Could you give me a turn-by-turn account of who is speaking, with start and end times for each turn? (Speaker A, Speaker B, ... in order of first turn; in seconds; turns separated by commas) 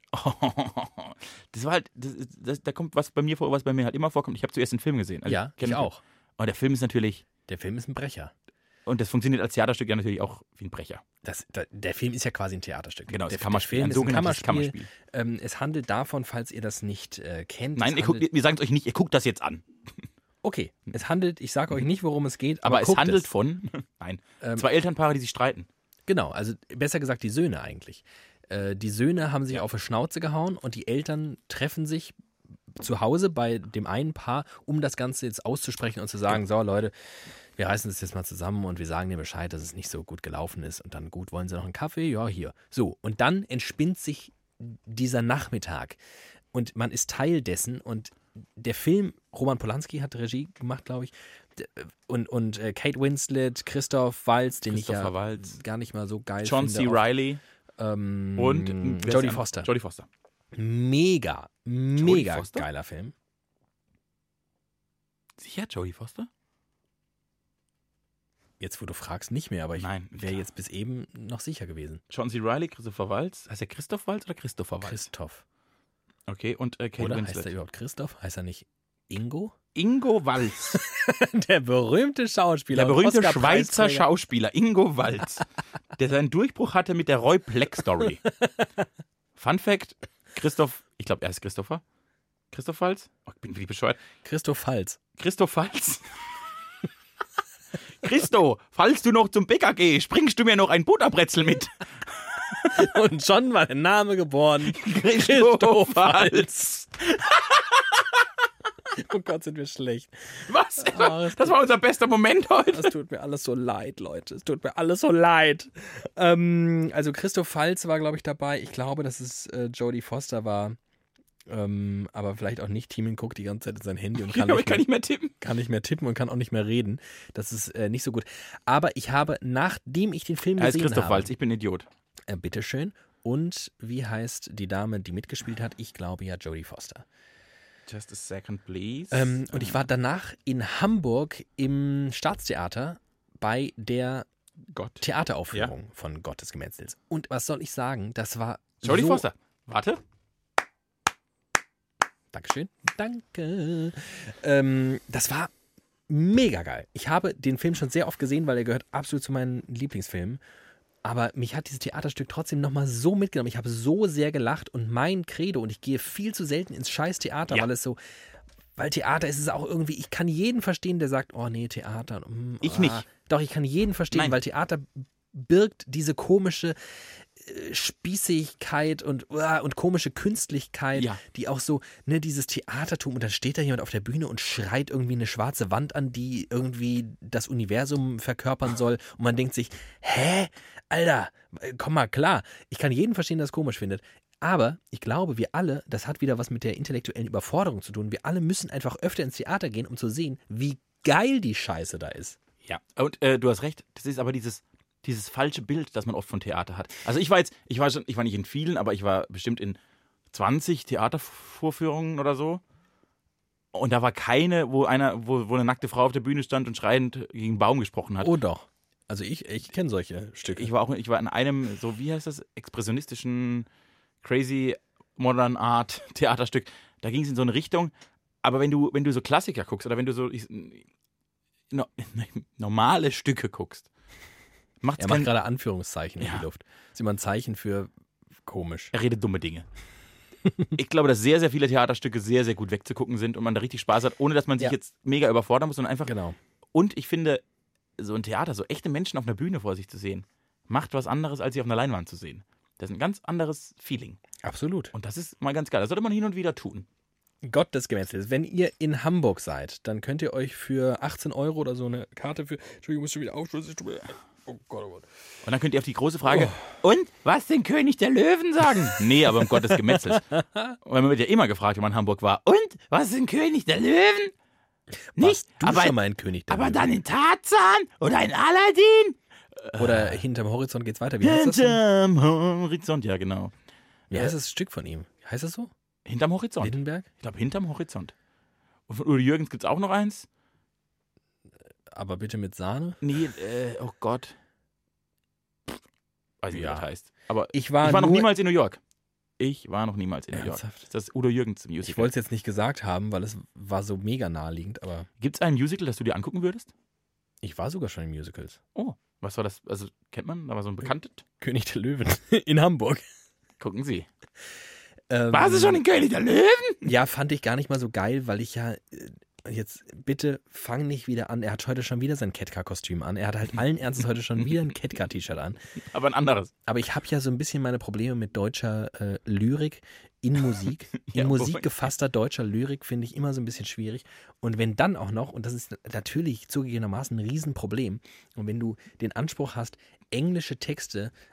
Speaker A: 0.1-7.2, Speaker B: 5.2-6.0, Speaker B: 7.5-8.3, Speaker A: 8.8-11.0, Speaker B: 11.2-18.3, Speaker A: 13.1-14.9, Speaker A: 17.8-19.7, Speaker B: 20.4-23.3, Speaker A: 22.6-25.7, Speaker B: 24.4-24.7, Speaker B: 26.1-32.1, Speaker B: 32.8-36.9, Speaker B: 37.5-46.0, Speaker B: 46.5-57.1, Speaker A: 54.7-55.6, Speaker A: 56.4-57.4, Speaker B: 57.8-59.7, Speaker A: 58.4-60.1, Speaker B: 60.5-63.1, Speaker A: 62.0-62.6, Speaker A: 65.4-66.3, Speaker B: 68.6-72.0, Speaker A: 69.8-70.4, Speaker A: 72.1-75.1, Speaker B: 74.8-75.4, Speaker A: 76.3-77.5, Speaker B: 77.0-79.5, Speaker A: 79.7-80.8, Speaker B: 80.7-84.1, Speaker A: 82.7-85.4, Speaker A: 86.0-88.2, Speaker B: 88.2-88.7, Speaker A: 89.3-91.8, Speaker A: 92.5-94.0, Speaker B: 94.2-95.0, Speaker A: 95.2-96.0, Speaker A: 98.0-102.9, Speaker B: 102.7-106.9, Speaker A: 104.6-108.2, Speaker B: 108.9-111.6, Speaker A: 110.5-112.9, Speaker B: 112.7-120.8, Speaker B: 121.5-124.9, Speaker A: 124.2-125.3, Speaker B: 125.4-131.3, Speaker A: 130.6-131.9, Speaker B: 132.3-137.0, Speaker A: 137.9-139.8, Speaker B: 139.1-144.3, Speaker A: 144.7-145.7, Speaker B: 145.0-149.2, Speaker A: 148.8-150.0, Speaker B: 152.3-155.5, Speaker B: 156.1-160.4, Speaker B: 161.0-168.0, Speaker B: 168.8-176.8, Speaker A: 172.6-173.0, Speaker B: 177.3-202.4, Speaker A: 180.9-181.2, Speaker A: 202.6-209.8, Speaker A: 210.3-212.6, Speaker A: 213.7-218.3, Speaker B: 218.2-220.7, Speaker A: 220.5-223.7, Speaker A: 224.2-230.8, Speaker A: 231.7-233.9, Speaker A: 234.8-235.3, Speaker B: 235.0-237.9, Speaker A: 236.2-236.4, Speaker B: 238.4-238.9, Speaker A: 238.9-239.7, Speaker A: 240.7-246.1, Speaker B: 246.0-246.4, Speaker A: 246.7-247.4, Speaker A: 248.0-254.2, Speaker B: 254.4-254.9, Speaker A: 254.9-256.9, Speaker B: 257.4-265.1, Speaker A: 265.4-270.3, Speaker B: 266.3-266.6, Speaker B: 269.4-270.7, Speaker A: 270.8-274.3, Speaker B: 275.1-276.9, Speaker A: 275.2-276.0, Speaker A: 276.5-280.2, Speaker B: 279.8-281.8, Speaker A: 281.2-283.5, Speaker B: 284.1-285.7, Speaker A: 286.1-288.1, Speaker B: 286.6-287.1, Speaker A: 288.9-290.3, Speaker B: 291.9-293.0, Speaker A: 293.0-294.4, Speaker A: 296.4-298.8, Speaker B: 296.5-296.9, Speaker B: 297.5-298.3, Speaker A: 299.4-302.1, Speaker B: 300.3-300.9, Speaker B: 301.8-305.1, Speaker A: 305.2-306.7, Speaker B: 307.4-308.6, Speaker A: 308.7-311.2, Speaker B: 311.4-313.0, Speaker A: 313.6-314.1, Speaker B: 315.1-315.8, Speaker A: 315.3-316.9, Speaker B: 316.8-325.6, Speaker A: 325.9-326.5, Speaker B: 326.7-341.1, Speaker A: 331.1-331.7